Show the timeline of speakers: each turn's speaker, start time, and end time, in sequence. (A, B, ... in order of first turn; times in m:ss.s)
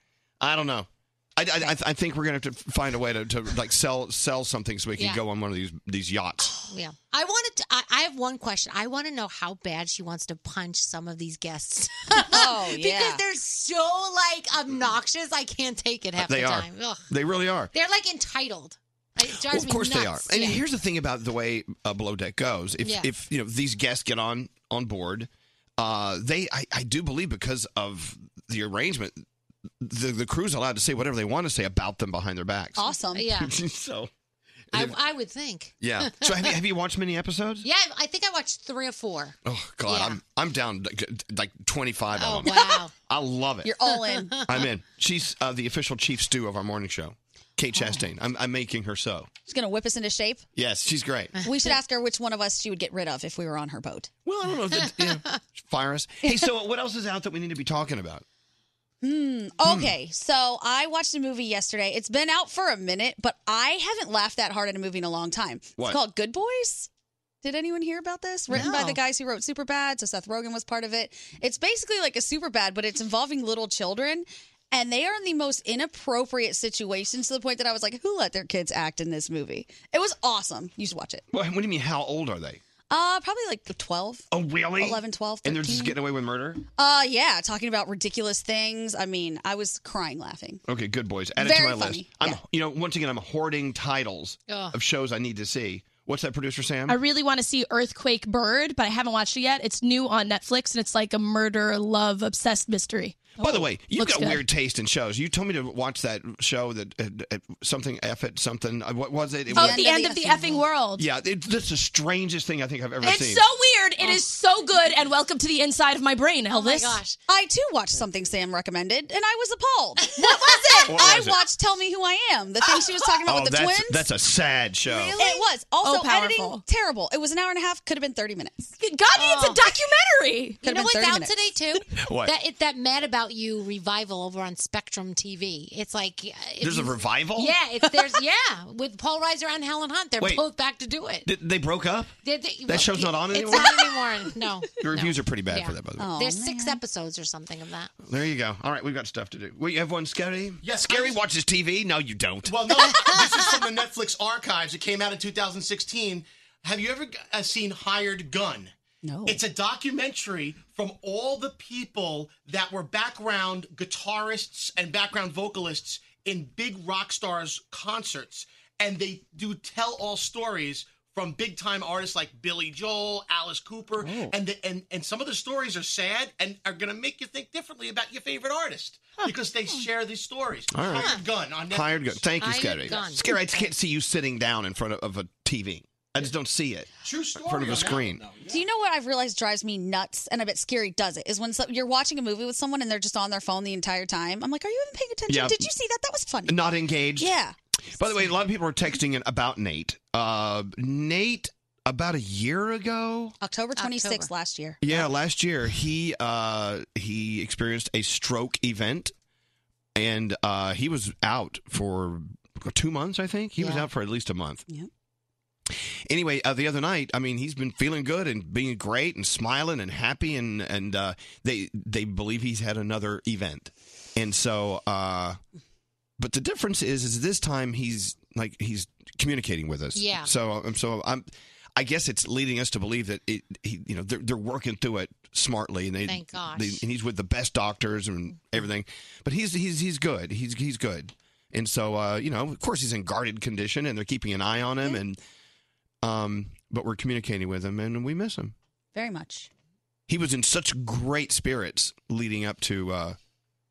0:00.4-0:06.6 A
0:05.0-0:05.2 B
0:06.6-0:17.1 B
0:12.2-0:13.2 C
0:16.2-0:17.7 A
0:17.7-0:20.6 B
0:19.3-0:29.2 A
0:22.8-0:23.1 B
0:29.8-0:34.1 A
0:32.8-0:33.4 C
0:33.1-0:33.5 B
0:34.7-0:35.0 A
0:34.7-0:36.6 B
0:35.8-0:37.6 A
0:37.6-0:39.4 B
0:39.4-0:43.8 A
0:39.9-0:40.2 B
0:42.2-0:42.9 B
0:42.4-0:42.8 C
0:43.6-0:44.4 C
0:44.1-0:44.4 B
0:44.4-0:49.3 A
0:47.7-0:48.1 C
0:49.4-0:50.4 C
0:50.6-0:51.4 A
0:51.4-0:51.7 B
0:51.4-0:54.1 C
0:54.2-0:58.2 A
0:54.8-0:55.4 B
0:59.0-1:06.9 C
0:59.6-0:59.9 A
1:07.4-1:21.2 C
1:08.5-1:09.0 B
1:21.3-1:22.6 A
1:22.9-1:24.2 C
1:24.3-1:26.6 A
1:24.8-1:26.0 C
1:26.8-1:30.6 C
1:30.7-1:37.0 A
1:31.4-1:32.4 C
1:34.5-1:34.8 B
1:36.9-1:44.4 D
1:43.4-1:49.9 A
1:49.5-1:50.6 C
1:49.5-1:51.0 D
1:51.0-1:53.4 A
1:53.0-1:57.0 D
1:56.5-1:57.2 B
1:57.3-2:04.1 C
2:00.2-2:00.8 B
2:00.8-2:01.4 A
2:03.2-2:05.2 A
2:04.9-2:08.7 C
2:05.2-2:05.4 B
2:05.8-2:06.6 D
2:08.8-2:10.6 D
2:09.1-2:09.7 B
2:10.6-2:11.6 C
2:10.6-2:21.3 B
2:12.0-2:12.3 A
2:16.6-2:17.5 A
2:17.8-2:18.2 C
2:20.2-2:20.4 A
2:21.2-2:22.1 A
2:22.2-2:27.9 B
2:22.6-2:23.9 A
2:24.8-2:26.1 A
2:26.0-2:26.8 C
2:28.0-2:33.2 A
2:30.6-2:31.2 E
2:32.5-2:38.7 E
2:32.9-2:33.5 B
2:39.0-2:39.4 C
2:39.2-3:02.3 E
3:00.7-3:01.2 A
3:01.0-3:01.2 B
3:01.7-3:08.3 A
3:02.4-3:03.7 B
3:07.0-3:08.5 E
3:08.5-3:16.6 C
3:15.3-3:15.6 A
3:16.5-3:17.3 A
3:17.2-3:17.5 C
3:18.0-3:23.4 A
3:23.4-3:24.8 C
3:23.8-3:24.3 B
3:24.8-3:29.1 A
3:30.0-3:34.6 A
3:36.1-3:45.4 A
3:46.2-4:05.2 A
3:49.9-3:50.3 B
3:56.0-3:56.8 B
4:06.0-4:08.5 A
4:08.9-4:09.5 C
4:10.1-4:13.2 A